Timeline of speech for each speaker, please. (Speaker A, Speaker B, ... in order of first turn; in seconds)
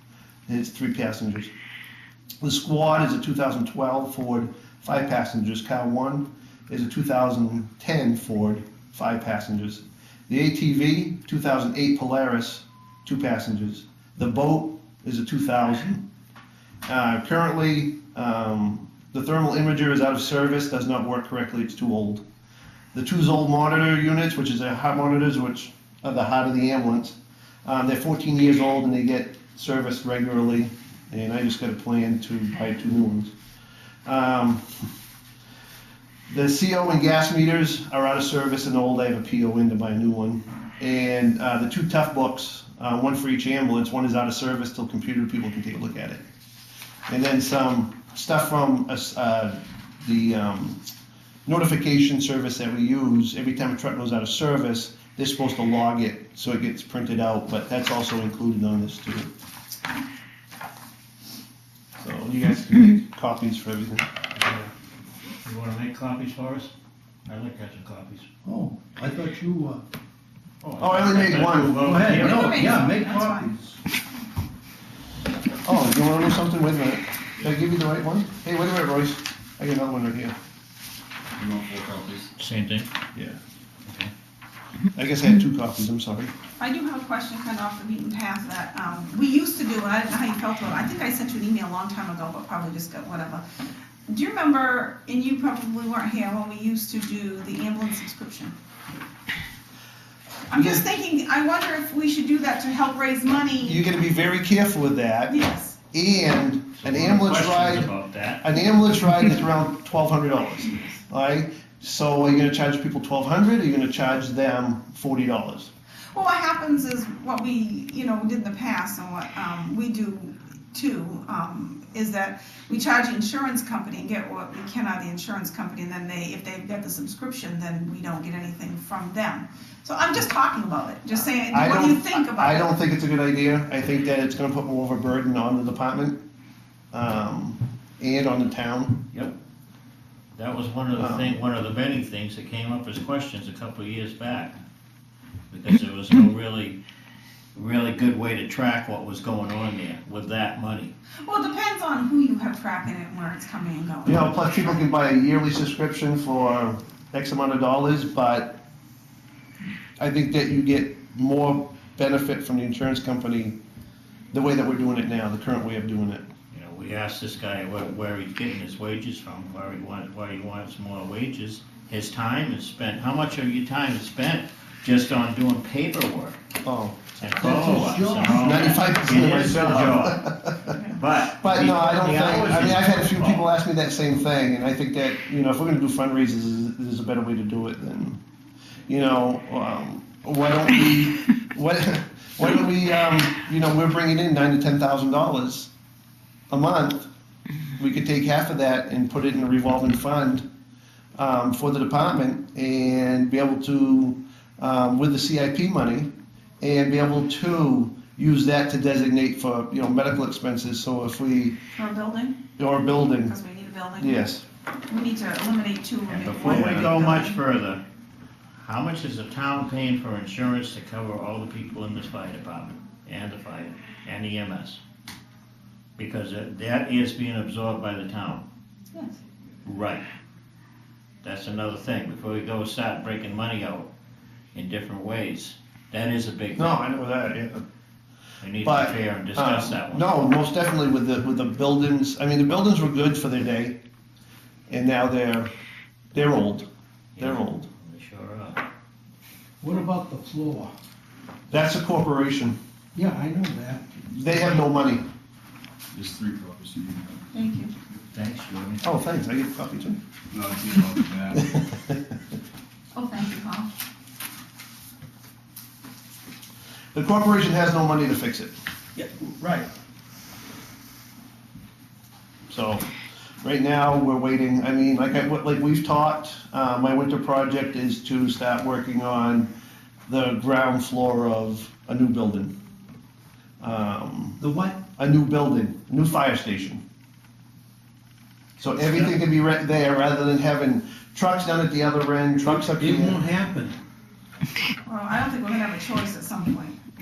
Speaker A: 0.5-1.5, 2.4-16.0, 16.9-22.2, 22.9-33.3, 34.0-34.8, 36.3-46.2, 47.1-50.8, 51.5-59.3, 62.0-64.0, 70.8-71.9, 75.6-80.3, 84.9-86.3, 103.6-105.4, 105.9-107.9, 108.4-115.7, 131.5-136.2, 136.9-139.0, 140.9-141.4, 154.0-158.6, 160.0-163.6, 164.3-166.2, 176.6-177.2, 178.2-180.8, 181.4-188.2, 188.9-195.7, 196.5-197.1, 197.8-200.4, 201.2-206.1, 206.6-211.6, 212.6-213.3, 214.0-214.4, 216.4-216.9, 236.6-237.6, 238.6-243.8, 244.7-245.5, 246.1-247.7, 251.5-252.6, 254.1-255.0, 258.8-260.0, 261.5-262.0, 266.9-268.5, 272.5-272.9, 273.4-279.5, 280.1-282.5, 283.6-284.4, 284.9-286.8, 288.6-293.2
Speaker B: 64.3-64.7, 65.4-66.7, 67.3-68.3, 70.6-72.9, 82.4-82.9, 83.8-84.1, 106.8-108.4, 140.3-144.6, 145.5-146.8, 147.5-150.9, 166.5-176.4, 177.2-180.3, 180.9-183.4, 216.1-217.8, 218.6-224.8, 226.0-228.4, 229.6-230.0, 231.2-233.9, 234.5-236.8, 238.4-240.1, 247.2-248.6, 258.1-258.8, 288.8-289.1
Speaker C: 68.4-69.8, 71.7-73.8, 177.3-179.7, 249.6-250.7, 252.9-254.4, 269.0-269.7, 284.4-284.8, 292.4-293.8
Speaker D: 72.1-73.5, 86.6-93.4, 94.1-98.5, 100.5-103.8, 105.3-105.8, 116.1-132.7, 151.2-154.8, 211.7-212.4, 213.1-214.2, 214.9-217.4, 228.9-229.2, 257.3-257.7, 262.9-263.7, 294.8-296.8
Speaker E: 81.3-82.3, 255.9-257.2, 260.3-261.6